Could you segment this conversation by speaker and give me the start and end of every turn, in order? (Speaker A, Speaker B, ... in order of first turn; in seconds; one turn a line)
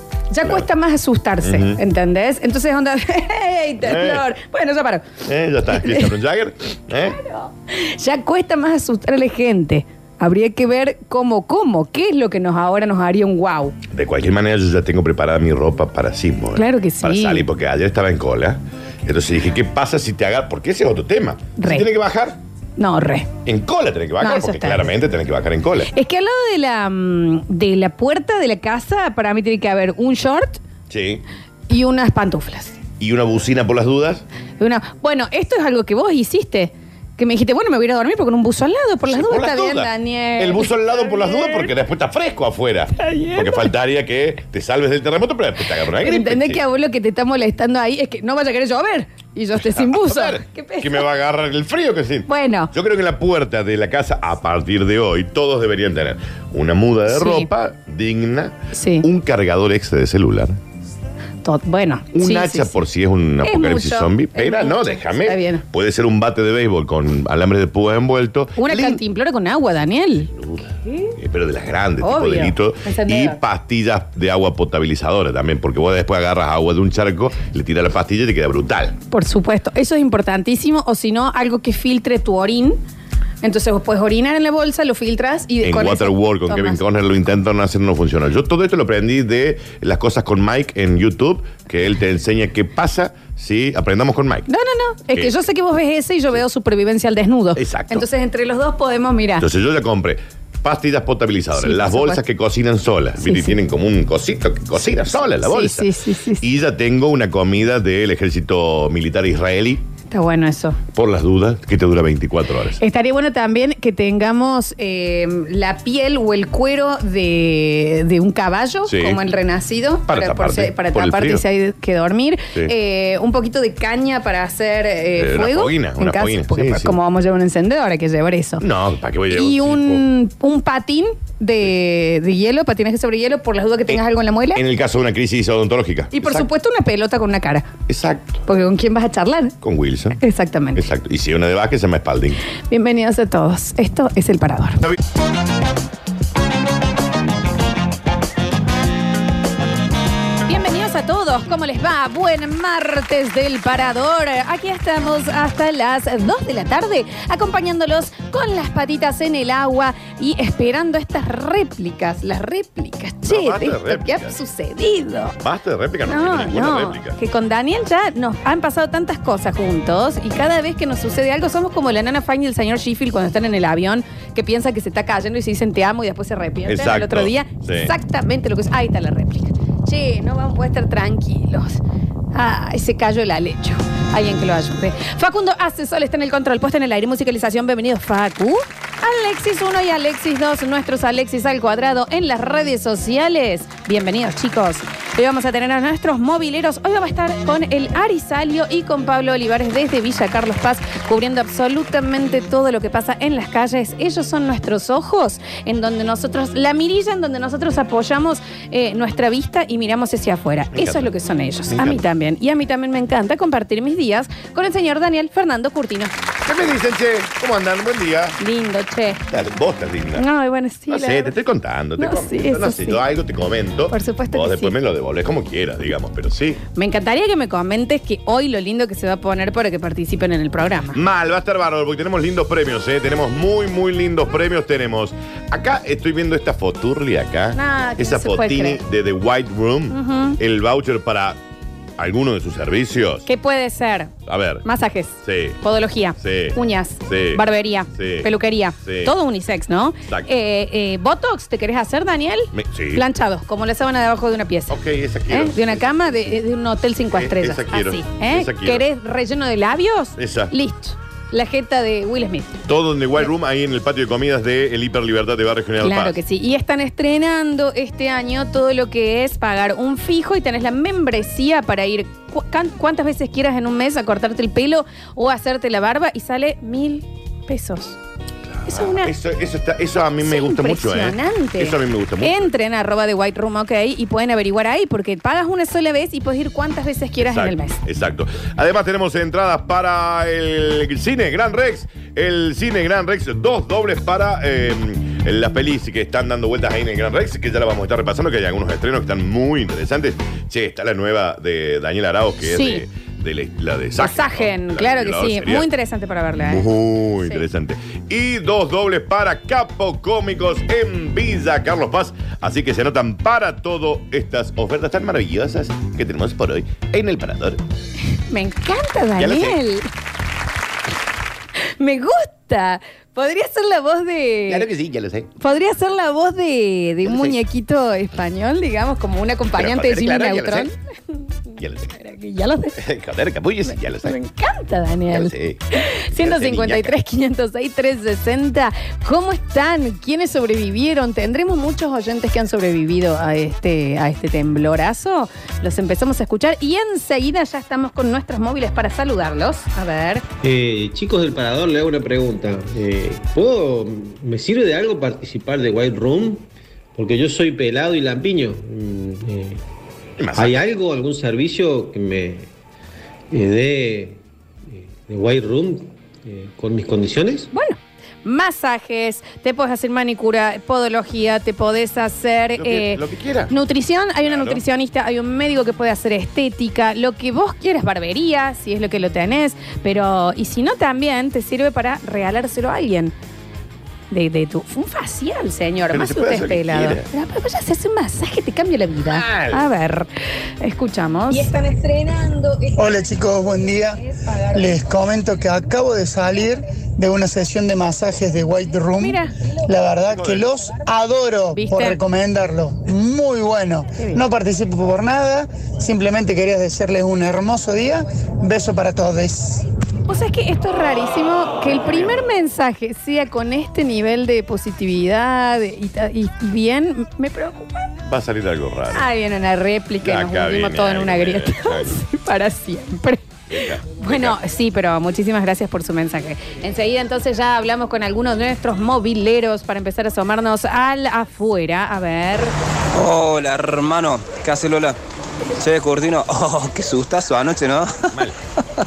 Speaker A: 0.3-5.0
Speaker B: 1.4-1.8
Speaker B: 3.8-4.2
Speaker B: 5.2-7.2
Speaker A: 5.7-6.1
Speaker A: 7.2-13.8
Speaker B: 13.9-22.4
Speaker A: 16.6-17.4
Speaker A: 21.6-21.9
Speaker A: 22.8-23.3
Speaker B: 23.4-25.9
Speaker A: 24.2-24.9
Speaker A: 25.9-30.6
Speaker B: 30.9-31.2
Speaker A: 31.7-32.8
Speaker B: 33.0-34.2
Speaker A: 34.6-41.7
Speaker B: 39.1-46.6
Speaker A: 43.0-43.7
Speaker A: 46.0-51.0
Speaker B: 49.5-60.6
Speaker A: 52.3-52.7
Speaker A: 57.1-57.5
Speaker A: 58.7-59.1
Speaker A: 61.4-62.8
Speaker B: 62.1-69.0
Speaker A: 63.4-65.6
Speaker A: 68.6-70.3
Speaker B: 70.3-79.0
Speaker A: 70.8-71.1
Speaker A: 72.0-73.4
Speaker A: 79.1-82.8
Speaker A: 83.4-86.8
Speaker B: 85.6-94.5
Speaker A: 94.5-99.4
Speaker B: 97.5-98.0
Speaker B: 99.4-105.9
Speaker A: 101.5-102.2
Speaker A: 103.2-103.6
Speaker A: 105.4-106.4
Speaker B: 106.4-109.8
Speaker A: 110.1-110.8
Speaker B: 110.9-112.8
Speaker A: 112.8-128.6
Speaker B: 118.9-119.2
Speaker B: 120.1-121.4
Speaker B: 125.2-127.0
Speaker B: 128.6-130.0
Speaker A: 129.3-134.6
Speaker B: 134.5-136.5
Speaker A: 136.1-137.7
Speaker B: 137.9-138.4
Speaker A: 138.4-139.5
Speaker B: 139.6-140.2
Speaker A: 140.2-140.8
Speaker B: 140.7-142.4
Speaker A: 142.7-144.8
Speaker A: 150.5-165.3
Speaker B: 163.2-164.3
Speaker B: 165.4-167.2
Speaker A: 166.1-181.8
Speaker B: 176.7-177.9
Speaker A: 182.3-216.1
Speaker B: 210.7-211.1
Speaker B: 211.7-212.0
Speaker B: 216.4-218.4
Speaker A: 218.4-219.2
Speaker B: 219.3-220.2
Speaker A: 220.2-221.3
Speaker B: 220.9-226.6
Speaker A: 222.0-223.0
Speaker A: 223.9-224.8
Speaker A: 226.7-231.0
Speaker B: 230.9-241.4
Speaker A: 237.5-238.8
Speaker A: 239.9-240.4
Speaker B: 242.0-243.2
Speaker A: 243.2-244.1
Speaker B: 244.3-244.6
Speaker A: 244.6-254.8
Speaker B: 245.2-245.6
Speaker B: 246.2-248.3
Speaker B: 248.8-249.1
Speaker B: 252.5-253.0
Speaker B: 254.7-256.3
Speaker A: 255.3-262.6
Speaker B: 257.1-258.8
Speaker B: 260.2-260.5
Speaker B: 262.7-266.2
Speaker A: 265.8-278.0
Speaker B: 278.4-282.5
Speaker A: 278.6-279.1
Speaker A: 280.2-287.8
Speaker B: 287.2-305.7
Speaker A: 302.4-302.8
Speaker A: 304.0-306.7
Speaker B: 306.5-317.6
Speaker A: 318.3-319.9
Speaker B: 319.1-319.6
Speaker A: 321.8-324.6
Speaker B: 324.5-325.3
Speaker A: 325.4-330.7
Speaker B: 327.0-327.4
Speaker B: 329.6-330.7
Speaker B: 331.6-331.9
Speaker A: 331.9-332.8
Speaker B: 332.8-334.2
Speaker A: 334.0-350.2
Speaker B: 335.1-336.9
Speaker C: 350.4-359.6
Speaker B: 360.2-360.6
Speaker C: 360.4-362.5
Speaker C: 363.3-367.5
Speaker A: 367.5-383.1
Speaker B: 372.6-373.5
Speaker B: 374.2-374.6
Speaker A: 384.1-390.1
Speaker B: 385.9-387.1
Speaker B: 389.0-389.7
Speaker A: 390.6-392.3
Speaker D: 392.7-409.7
Speaker A: 399.0-399.3
Speaker B: 400.1-400.4
Speaker A: 401.5-402.0
Speaker A: 410.1-417.9
Speaker B: 411.9-412.3
Speaker B: 418.1-419.1
Speaker A: 418.9-423.2
Speaker B: 420.0-422.0
Speaker B: 423.5-424.4
Speaker A: 424.0-432.5
Speaker E: 432.9-434.9
Speaker E: 435.6-438.1